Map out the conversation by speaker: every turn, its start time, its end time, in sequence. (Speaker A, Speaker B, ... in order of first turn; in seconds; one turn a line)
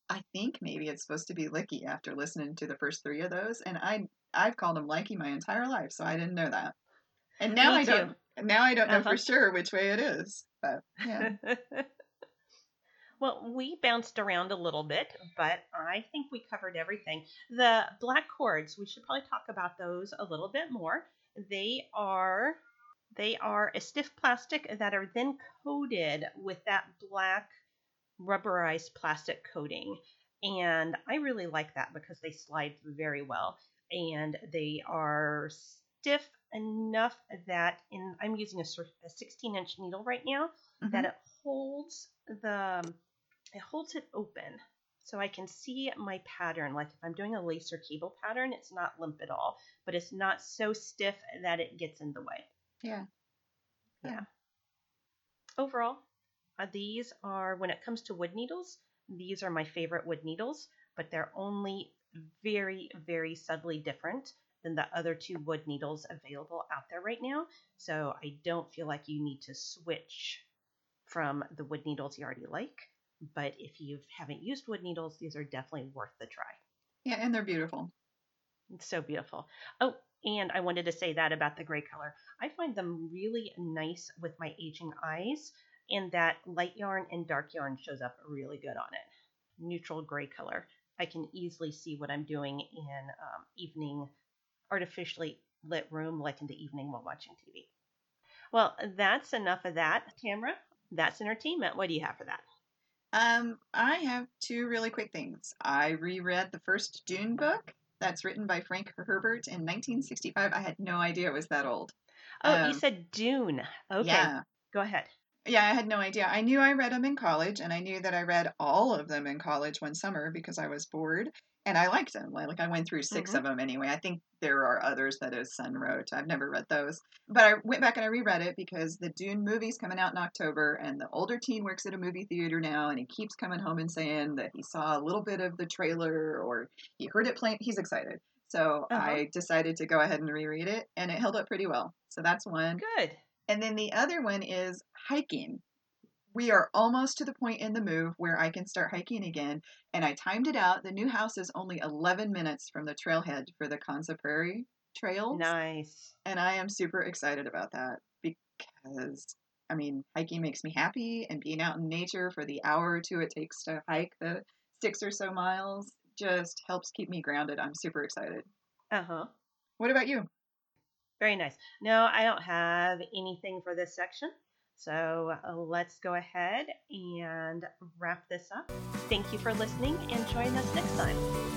Speaker A: 0.1-6.7
Speaker A: 7.4-11.3
Speaker B: 7.6-8.1
Speaker B: 8.9-9.2
Speaker B: 11.2-11.9
Speaker B: 13.2-22.6
Speaker B: 23.1-27.5
Speaker B: 28.2-43.0
Speaker A: 40.8-41.1
Speaker B: 43.5-52.5
Speaker B: 55.6-56.0
Speaker B: 56.6-70.4
Speaker B: 71.0-76.6
Speaker A: 77.0-77.9
Speaker B: 78.7-94.1
Speaker B: 94.7-97.7
Speaker B: 98.5-102.4
Speaker A: 103.1-112.8
Speaker B: 112.4-115.1
Speaker A: 114.0-114.4
Speaker A: 115.5-142.8
Speaker B: 123.1-123.4
Speaker B: 138.9-139.2
Speaker B: 142.8-143.2
Speaker A: 143.5-145.6
Speaker A: 146.3-155.5
Speaker B: 155.3-156.1
Speaker A: 156.2-168.4
Speaker B: 168.9-169.3
Speaker A: 169.8-170.3
Speaker B: 171.2-181.2